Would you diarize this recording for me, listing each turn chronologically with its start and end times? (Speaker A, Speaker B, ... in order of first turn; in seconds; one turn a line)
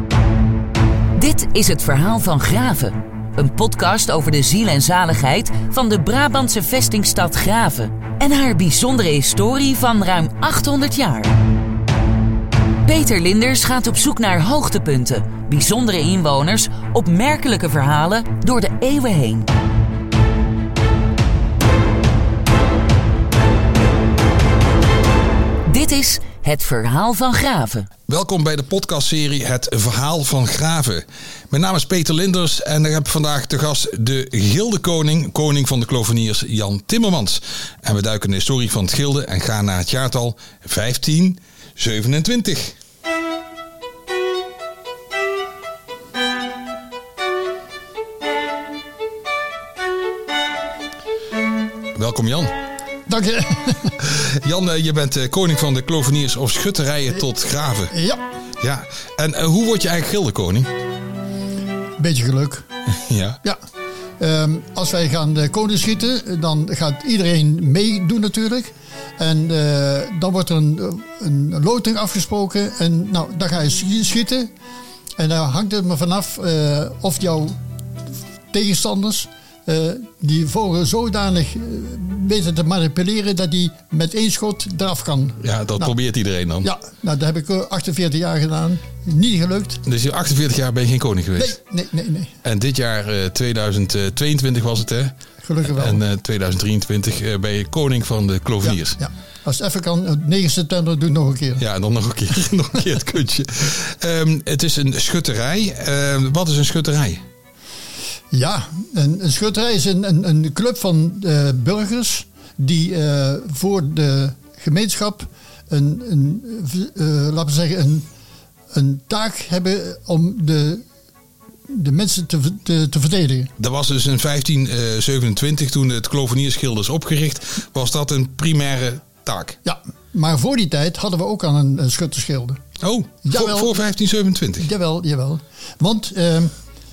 Speaker A: 1.1-11.3
Speaker A: 12.8-19.5
Speaker A: 25.6-27.9
Speaker B: 28.1-42.8
Speaker B: 51.9-52.5
Speaker C: 53.1-54.0
Speaker B: 54.0-57.9
Speaker C: 57.9-58.2
Speaker B: 58.6-60.7
Speaker C: 62.0-62.6
Speaker B: 62.9-63.4
Speaker C: 64.2-74.5
Speaker C: 75.2-77.6
Speaker C: 78.5-85.9
Speaker B: 85.4-86.7
Speaker C: 86.6-89.8
Speaker B: 89.8-91.6
Speaker C: 91.4-92.4
Speaker B: 92.4-95.1
Speaker C: 95.4-96.0
Speaker B: 95.7-99.0
Speaker C: 98.6-101.6
Speaker B: 101.6-107.2
Speaker C: 108.3-118.1
Speaker C: 118.7-120.8
Speaker C: 121.7-123.5
Speaker B: 123.6-129.6
Speaker C: 129.6-132.6
Speaker B: 132.8-134.7
Speaker C: 133.2-133.8
Speaker C: 134.6-136.5